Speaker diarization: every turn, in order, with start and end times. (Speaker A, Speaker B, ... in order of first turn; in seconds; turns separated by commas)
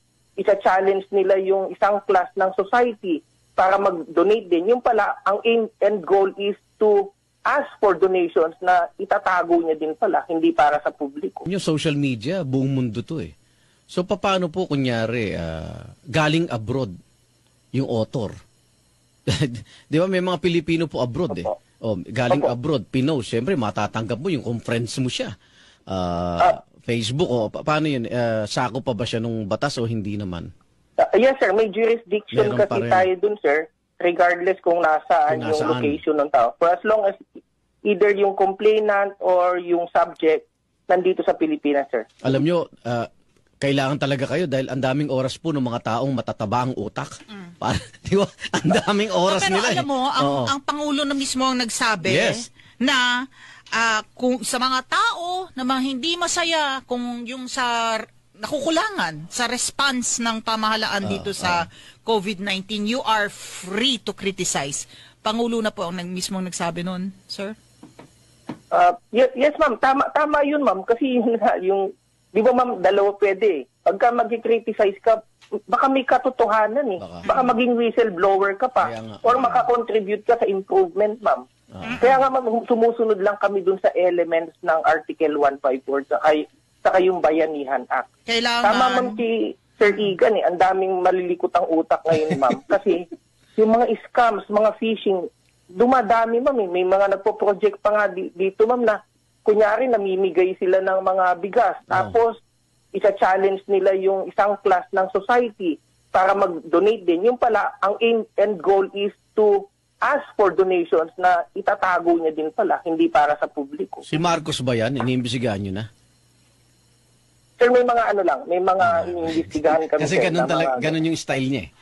Speaker A: 0.4-11.4, Speaker B: 11.5-13.3, Speaker B: 13.9-16.9, Speaker B: 17.7-18.3, Speaker B: 19.3-25.3, Speaker A: 21.3-21.6, Speaker B: 25.9-30.5, Speaker A: 31.0-37.2, Speaker B: 32.3-33.1, Speaker B: 35.3-36.0, Speaker A: 37.9-42.0, Speaker B: 42.2-43.1, Speaker B: 43.6-50.5, Speaker C: 49.2-53.0, Speaker B: 52.0-52.4, Speaker C: 53.7-67.5, Speaker B: 61.0-61.6, Speaker A: 68.7-75.2, Speaker A: 75.7-81.4, Speaker B: 77.0-77.3, Speaker C: 77.3-77.5, Speaker B: 78.8-79.6, Speaker C: 81.8-82.2, Speaker A: 82.0-88.1, Speaker C: 88.3-89.2, Speaker A: 88.6-102.3, Speaker A: 102.9-114.0, Speaker B: 114.1-115.9, Speaker A: 117.6-120.9, Speaker B: 118.8-121.7